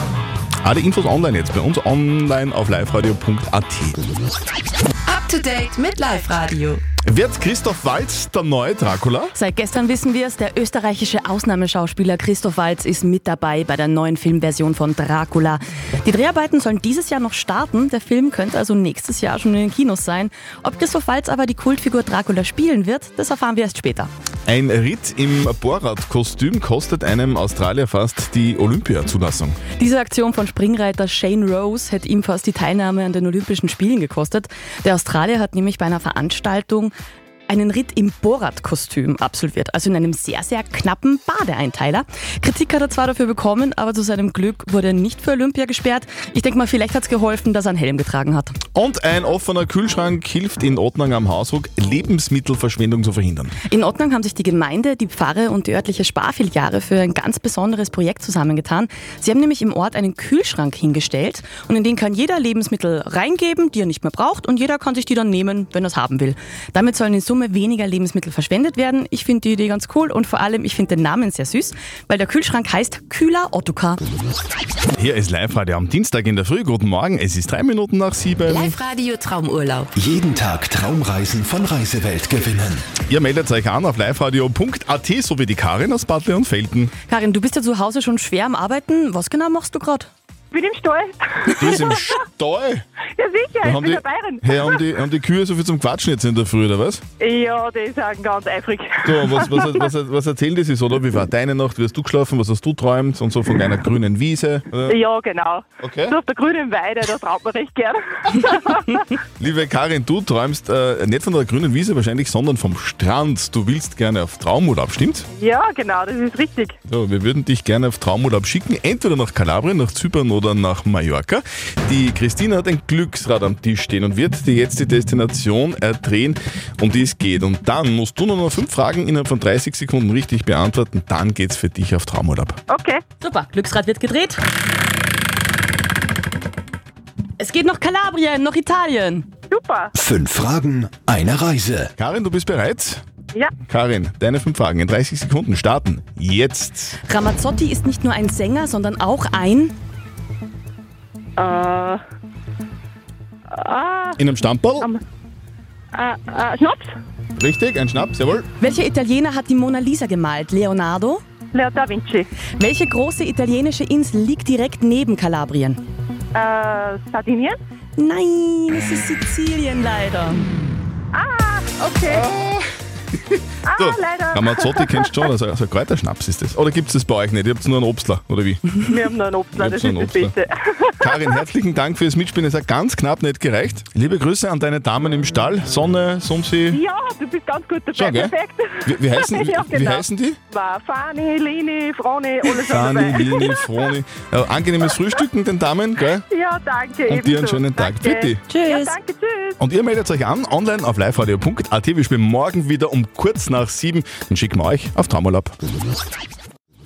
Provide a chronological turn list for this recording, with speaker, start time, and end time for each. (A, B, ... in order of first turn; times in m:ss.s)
0:00.6-0:04.0 A
0:05.1-0:06.8 B
0:07.0-0:09.3 A
0:09.4-0:24.1 C
0:24.5-0:29.6 A
0:29.8-0:36.9 C
0:37.5-0:48.6 C
0:48.8-0:53.6 A
0:53.7-1:14.0 C
1:14.9-1:18.8 A
1:18.5-1:19.9 B
1:20.0-1:22.8 D
1:23.1-1:26.9 A
1:27.1-1:30.1 C
1:30.5-1:32.0 E
1:31.6-1:32.8 A
1:33.2-1:34.8 E
1:33.6-1:37.0 A
1:37.2-1:39.7 E
1:39.0-1:45.0 A
1:44.9-1:49.1 E
1:45.8-1:46.2 A
1:49.4-1:55.3 A
1:55.4-1:56.8 E
1:56.9-2:12.6 A
2:12.7-2:13.0 E
2:13.2-2:14.4 C
2:17.4-2:19.3 C
2:19.5-2:19.9 E
2:19.9-2:21.9 D
2:22.0-2:23.0 A
2:23.7-2:27.0 A
2:27.1-2:29.7 C
2:31.4-2:32.0 E
2:33.5-2:34.2 E
2:34.2-2:34.9 A
2:36.0-2:36.9 E
2:37.4-2:38.5 A
2:38.6-2:41.2 C
2:41.5-2:42.3 E
2:42.6-2:45.8 C
2:46.4-2:47.6 E
2:48.0-2:50.5 C
2:51.1-2:52.3 E
2:52.0-2:52.6 A
2:53.3-2:58.8 A
2:53.7-2:55.1 E
2:58.8-3:01.1 E
2:59.5-3:00.4 A
3:01.0-3:06.8 A
3:06.7-3:13.6 E
3:07.9-3:08.3 A
3:08.8-3:10.4 A
3:12.6-3:16.2 A
3:16.3-3:19.6 E
3:17.1-3:18.5 A
3:19.6-3:25.6 A